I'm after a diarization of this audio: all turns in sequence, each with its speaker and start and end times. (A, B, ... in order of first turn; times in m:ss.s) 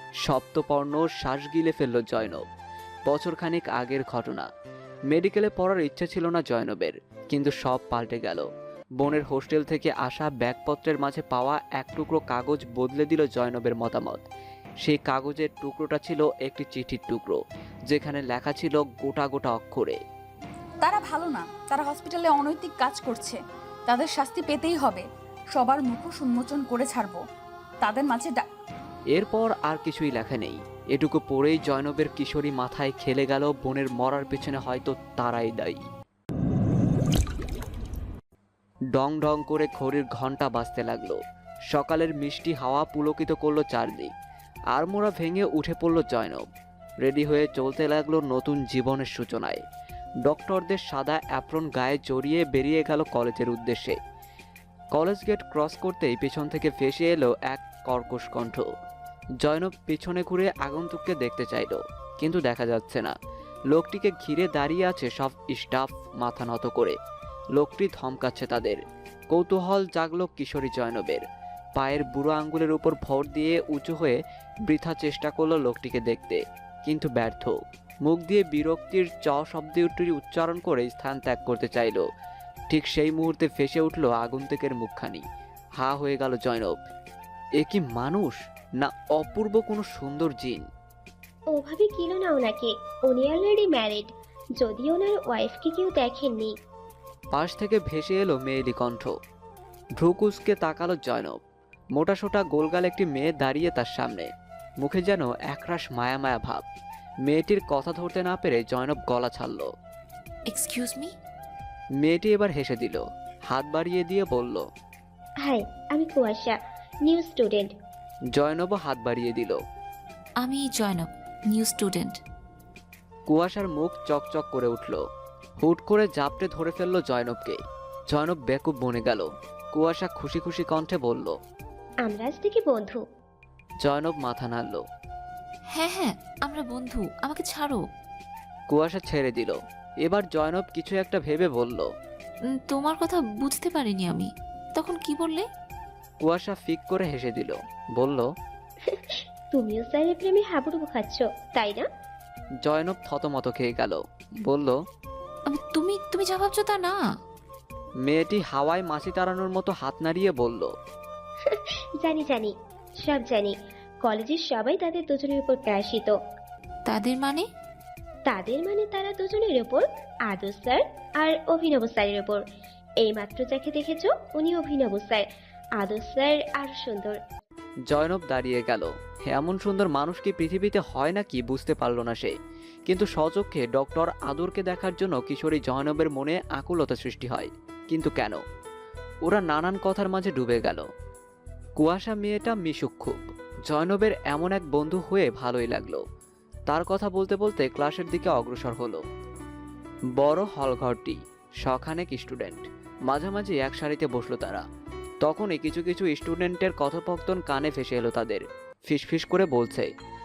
0:00.2-0:02.4 A
0:03.1-0:04.5 A
0:05.1-0:08.5 A
0:09.0-0:14.2 A
0:14.8-0:17.4 A
0:17.9-0:20.0 A
0:20.8-0:27.2 B
0:27.8-0:28.4 B
0:29.2-0:35.8 A
0:38.9-0:44.1 A
0:44.8-0:46.4 A
0:47.0-0:49.6 A
0:50.2-0:54.0 A
0:55.0-0:58.7 A
0:59.4-1:03.2 A
1:03.7-1:07.0 A
1:07.6-1:08.8 A
1:09.3-1:11.2 A
1:11.8-1:22.0 A
1:22.7-1:25.2 A
1:25.8-1:26.8 A
1:27.6-1:30.6 A
1:31.6-1:34.0 C
1:34.6-1:36.5 C
1:37.3-1:39.1 A
1:40.0-1:41.4 A
1:42.0-1:44.3 A
1:44.8-1:46.6 A
1:47.3-1:49.7 A
1:50.5-1:51.2 D
1:52.0-1:54.7 A
1:55.5-1:56.5 C
1:57.1-1:57.6 C
1:58.3-1:59.6 A
2:00.4-2:02.2 D
2:03.3-2:05.0 A
2:05.6-2:07.6 A
2:08.1-2:11.4 A
2:12.1-2:12.9 C
2:13.8-2:14.8 A
2:15.7-2:17.8 D
2:18.7-2:21.9 A
2:22.6-2:25.5 D
2:26.2-2:28.3 A
2:29.6-2:31.8 C
2:32.6-2:34.8 A
2:35.5-2:37.0 D
2:38.1-2:40.7 A
2:42.1-2:42.5 C
2:43.0-2:43.5 C
2:44.1-2:46.1 C
2:46.9-2:47.5 D
2:48.3-2:52.4 C
2:53.0-2:55.2 C
2:55.8-2:57.2 C
2:57.9-3:02.3 A
3:02.9-3:08.4 A
3:09.3-3:10.9 A
3:11.8-3:16.0 A
3:16.7-3:19.0 A
3:20.2-3:24.6 A
3:25.2-3:29.9 A